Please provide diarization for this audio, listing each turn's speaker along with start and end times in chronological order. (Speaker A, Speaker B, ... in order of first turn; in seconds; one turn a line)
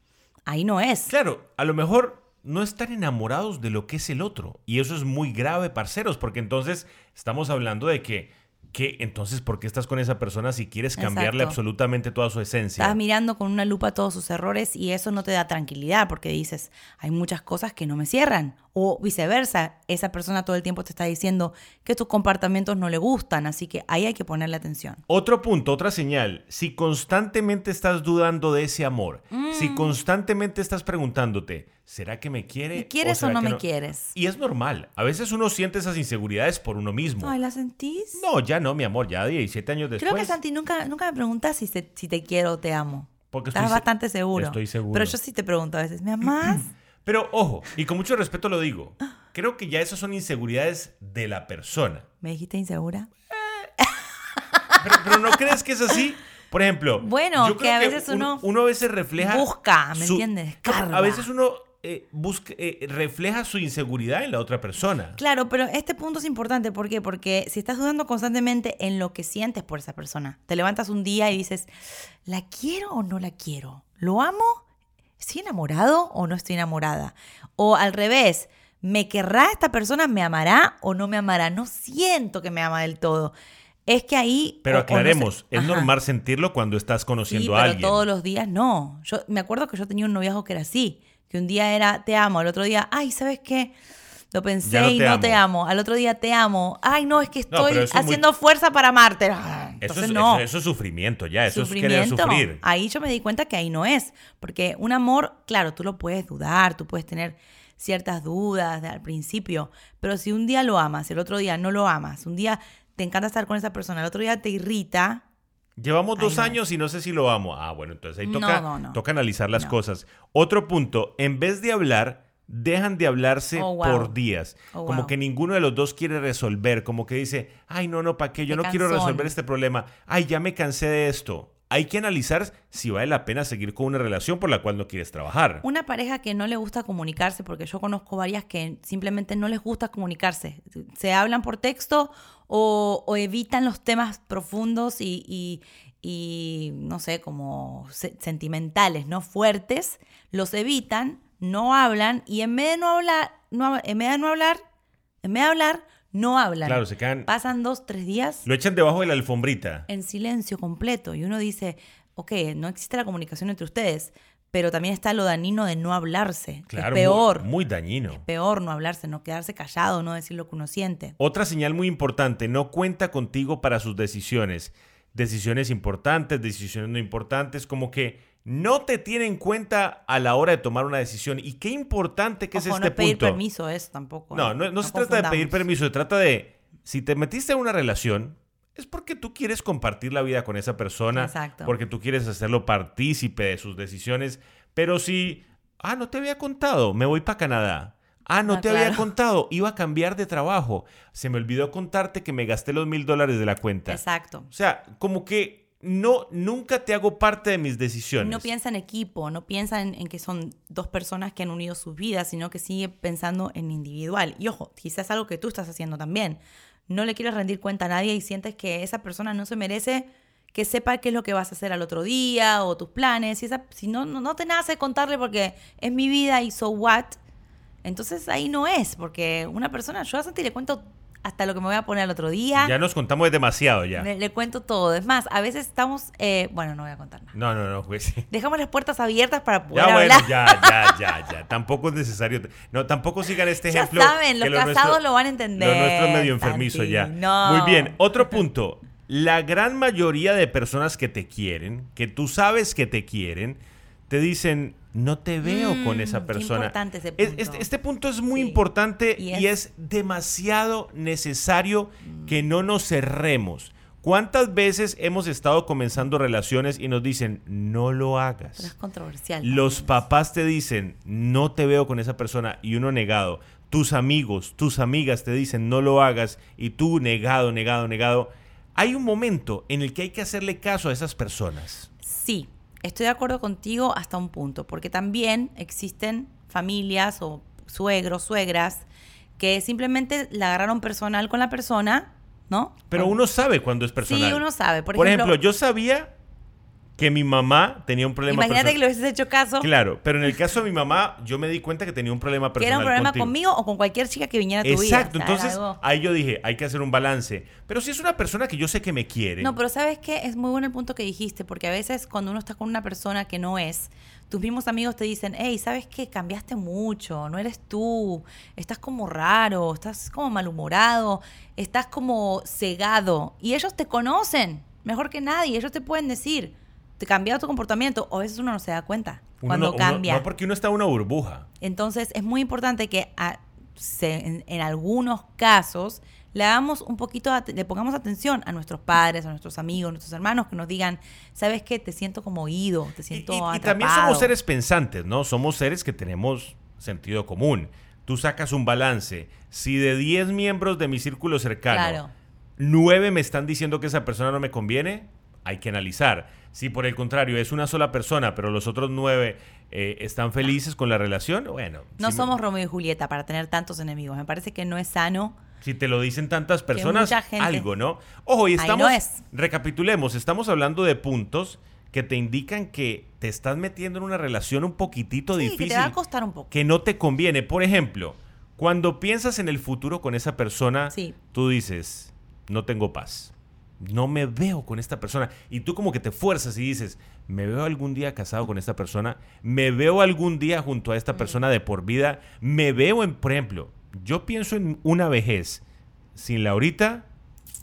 Speaker A: 0.5-1.1
Speaker B: 1.1-13.0
Speaker A: 11.0-11.6
Speaker A: 12.8-25.0
Speaker B: 25.1-37.3
Speaker A: 29.3-30.0
Speaker A: 32.7-34.1
Speaker A: 37.2-38.2
Speaker B: 38.1-40.4
Speaker A: 40.0-46.7
Speaker B: 43.3-45.2
Speaker B: 47.0-52.0
Speaker A: 52.2-53.1
Speaker A: 54.7-55.4
Speaker B: 54.8-65.2
Speaker A: 57.0-58.4
Speaker A: 59.2-61.3
Speaker A: 65.2-71.7
Speaker A: 72.3-74.6
Speaker A: 75.2-83.3
Speaker A: 83.9-85.9
Speaker B: 84.7-88.0
Speaker A: 87.3-93.7
Speaker A: 94.3-100.5
Speaker B: 94.6-95.4
Speaker B: 97.5-98.2
Speaker B: 99.8-102.6
Speaker A: 101.5-115.2
Speaker B: 115.8-135.6
Speaker A: 116.2-116.6
Speaker A: 118.2-119.0
Speaker A: 123.6-124.2
Speaker A: 124.7-125.2
Speaker A: 128.5-129.3
Speaker A: 135.6-154.6
Speaker A: 155.2-158.5
Speaker B: 156.7-157.3
Speaker B: 158.4-159.9
Speaker A: 159.9-167.5
Speaker B: 166.7-168.2
Speaker A: 168.1-171.2
Speaker B: 171.2-183.4
Speaker A: 182.5-185.6
Speaker B: 184.3-208.5
Speaker A: 191.1-191.7
Speaker A: 198.5-199.1
Speaker A: 203.9-204.5
Speaker A: 208.2-227.2
Speaker A: 227.8-232.7
Speaker B: 232.6-234.1
Speaker A: 234.0-237.3
Speaker B: 237.3-238.3
Speaker A: 238.3-241.0
Speaker B: 239.7-245.0
Speaker A: 243.6-248.1
Speaker B: 245.6-268.7
Speaker A: 255.4-257.7
Speaker A: 258.3-258.6
Speaker A: 259.2-259.5
Speaker A: 262.1-262.5
Speaker A: 268.5-270.0
Speaker B: 269.4-281.9
Speaker A: 282.0-288.9
Speaker A: 289.4-293.1
Speaker B: 292.9-296.1
Speaker A: 294.0-295.4
Speaker B: 297.0-298.8
Speaker A: 298.3-299.7
Speaker B: 299.6-303.3
Speaker A: 302.6-305.8
Speaker B: 304.6-309.5
Speaker A: 309.4-330.3
Speaker B: 329.4-331.5
Speaker A: 331.6-344.4
Speaker B: 343.1-352.0
Speaker A: 351.7-352.1
Speaker B: 352.6-362.3
Speaker A: 362.0-365.4
Speaker B: 365.6-376.0
Speaker A: 366.7-367.7
Speaker A: 368.6-369.2
Speaker A: 375.4-376.5
Speaker B: 376.5-395.6
Speaker A: 380.9-381.2
Speaker B: 396.1-397.1